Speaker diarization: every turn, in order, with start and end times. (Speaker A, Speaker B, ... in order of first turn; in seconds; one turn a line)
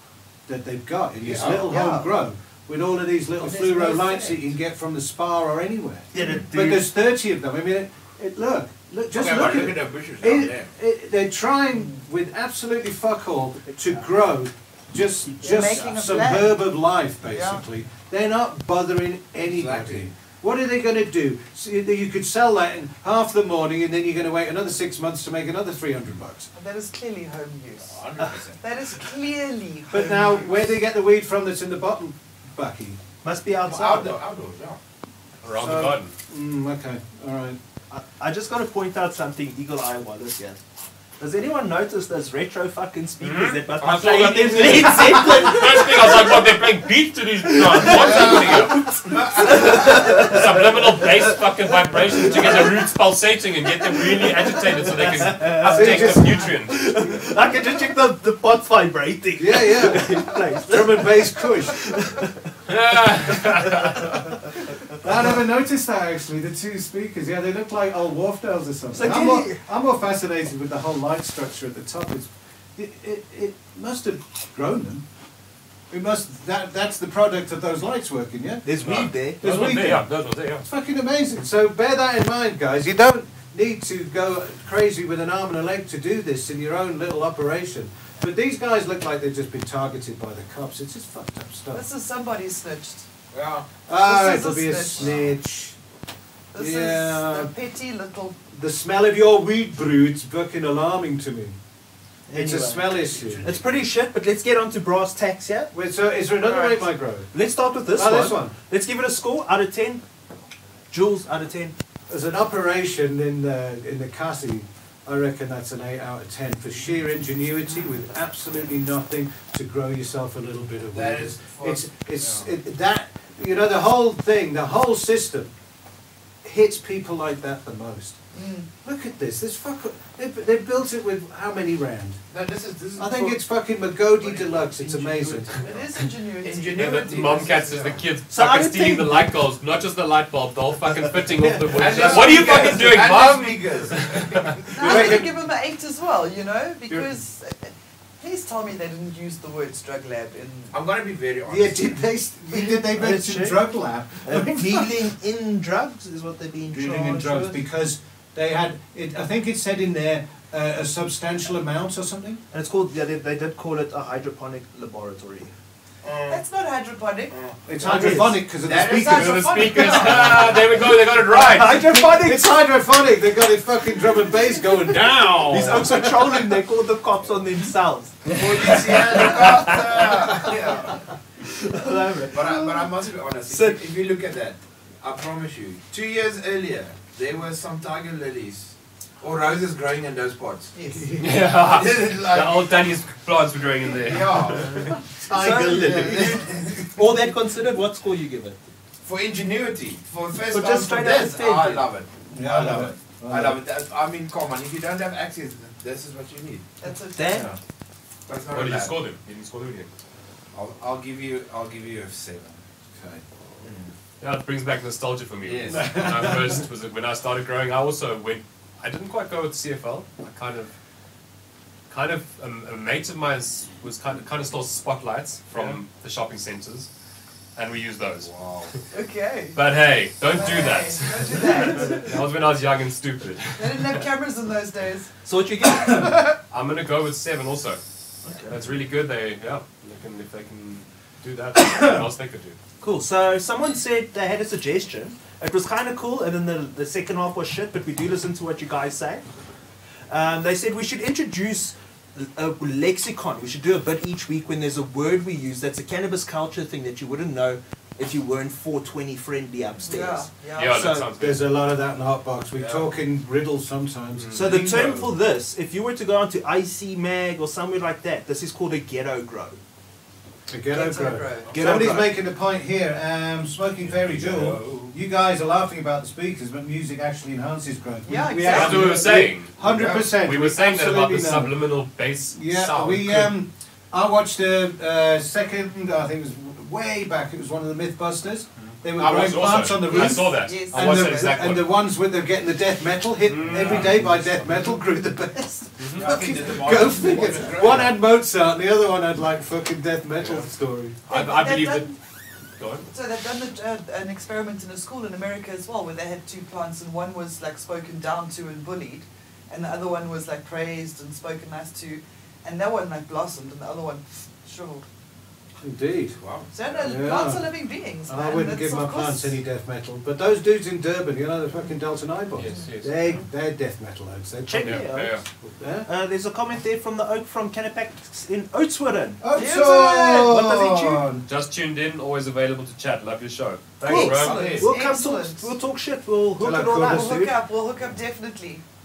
Speaker A: 0.5-26.5
Speaker B: 1.2-1.7
Speaker C: 1.6-2.1
Speaker B: 3.7-4.1
Speaker D: 6.1-6.9
Speaker B: 9.1-10.7
Speaker C: 15.4-16.7
Speaker C: 17.2-17.6
Speaker B: 19.4-20.1
Speaker C: 26.5-28.0
Speaker B: 27.8-28.6
Speaker C: 28.6-30.7
Speaker A: 29.9-33.0
Speaker D: 33.2-34.1
Speaker B: 33.6-34.8
Speaker E: 35.4-36.1
Speaker A: 35.5-37.6
Speaker D: 37.9-40.6
Speaker D: 41.2-46.4
Speaker E: 43.2-56.8
Speaker D: 47.5-50.7
Speaker B: 48.1-48.4
Speaker D: 52.2-52.7
Speaker D: 54.8-62.4
Speaker A: 55.6-56.5
Speaker A: 59.4-61.8
Speaker E: 62.7-64.1
Speaker A: 63.4-63.8
Speaker A: 64.9-75.0
Speaker D: 68.9-69.6
Speaker A: 75.9-78.6
Speaker D: 78.6-79.5
Speaker E: 78.8-80.6
Speaker A: 79.4-80.1
Speaker A: 80.6-91.8
Speaker C: 91.7-93.0
Speaker B: 93.3-93.7
Speaker A: 93.9-95.8
Speaker C: 94.0-95.2
Speaker B: 95.0-95.3
Speaker C: 96.5-98.4
Speaker A: 96.5-97.5
Speaker A: 98.5-101.6
Speaker D: 102.3-105.7
Speaker A: 102.3-103.5
Speaker B: 103.1-103.8
Speaker A: 105.7-107.3
Speaker C: 106.4-106.9
Speaker D: 107.3-110.0
Speaker A: 107.9-108.5
Speaker D: 110.9-111.7
Speaker A: 112.1-125.5
Speaker B: 120.9-122.5
Speaker A: 126.4-128.2
Speaker C: 128.3-128.7
Speaker A: 128.8-132.2
Speaker B: 132.3-133.4
Speaker A: 133.0-135.5
Speaker B: 134.2-138.0
Speaker C: 135.6-136.9
Speaker E: 136.8-144.6
Speaker D: 138.3-139.3
Speaker D: 141.4-142.2
Speaker B: 141.7-145.0
Speaker C: 144.7-150.8
Speaker A: 144.8-145.4
Speaker B: 150.7-151.9
Speaker A: 151.5-154.9
Speaker D: 152.5-153.6
Speaker D: 154.2-157.6
Speaker A: 156.7-162.4
Speaker D: 162.5-165.5
Speaker B: 166.0-166.4
Speaker C: 166.3-167.3
Speaker B: 167.3-167.7
Speaker A: 167.7-170.4
Speaker D: 167.8-168.4
Speaker B: 168.6-169.5
Speaker C: 168.7-170.4
Speaker E: 169.1-171.9
Speaker D: 171.3-172.6
Speaker A: 171.6-176.3
Speaker E: 174.9-176.1
Speaker D: 175.5-180.5
Speaker B: 178.3-181.0
Speaker D: 181.4-182.8
Speaker B: 182.3-190.7
Speaker D: 183.5-183.8
Speaker C: 190.7-191.1
Speaker A: 191.0-191.3
Speaker E: 191.2-194.9
Speaker B: 191.6-192.7
Speaker B: 193.8-194.9
Speaker A: 195.2-196.4
Speaker D: 195.3-198.6
Speaker B: 195.5-196.7
Speaker B: 199.0-206.7
Speaker D: 200.5-201.9
Speaker A: 202.3-203.6
Speaker C: 206.8-207.5
Speaker D: 207.2-207.5
Speaker B: 207.3-207.6
Speaker B: 208.3-209.0
Speaker E: 208.5-209.9
Speaker B: 210.5-212.6
Speaker B: 213.6-213.9
Speaker E: 214.2-220.7
Speaker B: 215.4-216.0
Speaker A: 215.7-216.6
Speaker E: 221.9-226.9
Speaker E: 227.5-228.3
Speaker B: 228.2-228.7
Speaker C: 228.9-229.6
Speaker E: 229.5-234.0
Speaker C: 230.3-232.0
Speaker C: 233.6-235.1
Speaker D: 235.2-236.3
Speaker E: 236.5-237.8
Speaker D: 238.2-238.6
Speaker E: 238.5-242.6
Speaker D: 242.8-249.2
Speaker D: 250.1-261.1
Speaker C: 259.9-260.8
Speaker E: 260.6-261.4
Speaker A: 261.2-264.9
Speaker B: 262.5-262.9
Speaker E: 264.1-265.1
Speaker D: 264.3-269.6
Speaker A: 270.5-281.7
Speaker C: 270.7-271.5
Speaker D: 271.5-272.1
Speaker B: 273.8-274.9
Speaker C: 278.1-279.1
Speaker E: 278.4-283.4
Speaker B: 279.6-280.1
Speaker A: 282.3-300.9
Speaker E: 288.9-291.7
Speaker C: 289.9-291.4
Speaker E: 293.2-294.7
Speaker B: 293.5-294.1
Speaker E: 295.8-296.1
Speaker B: 295.9-298.0
Speaker E: 301.1-301.9
Speaker C: 301.1-301.9
Speaker E: 302.6-302.9
Speaker C: 302.9-314.8
Speaker A: 315.6-316.2
Speaker B: 316.2-316.5
Speaker C: 316.5-319.4
Speaker A: 316.7-324.9
Speaker E: 322.4-323.0
Speaker D: 324.4-325.2
Speaker E: 324.6-325.2
Speaker A: 325.6-325.9
Speaker D: 325.9-329.2
Speaker A: 329.2-331.2
Speaker C: 329.3-330.2
Speaker D: 329.8-331.2
Speaker E: 331.2-334.6
Speaker D: 333.9-337.3
Speaker C: 333.9-335.5
Speaker B: 333.9-334.7
Speaker A: 336.4-337.2
Speaker C: 336.9-338.6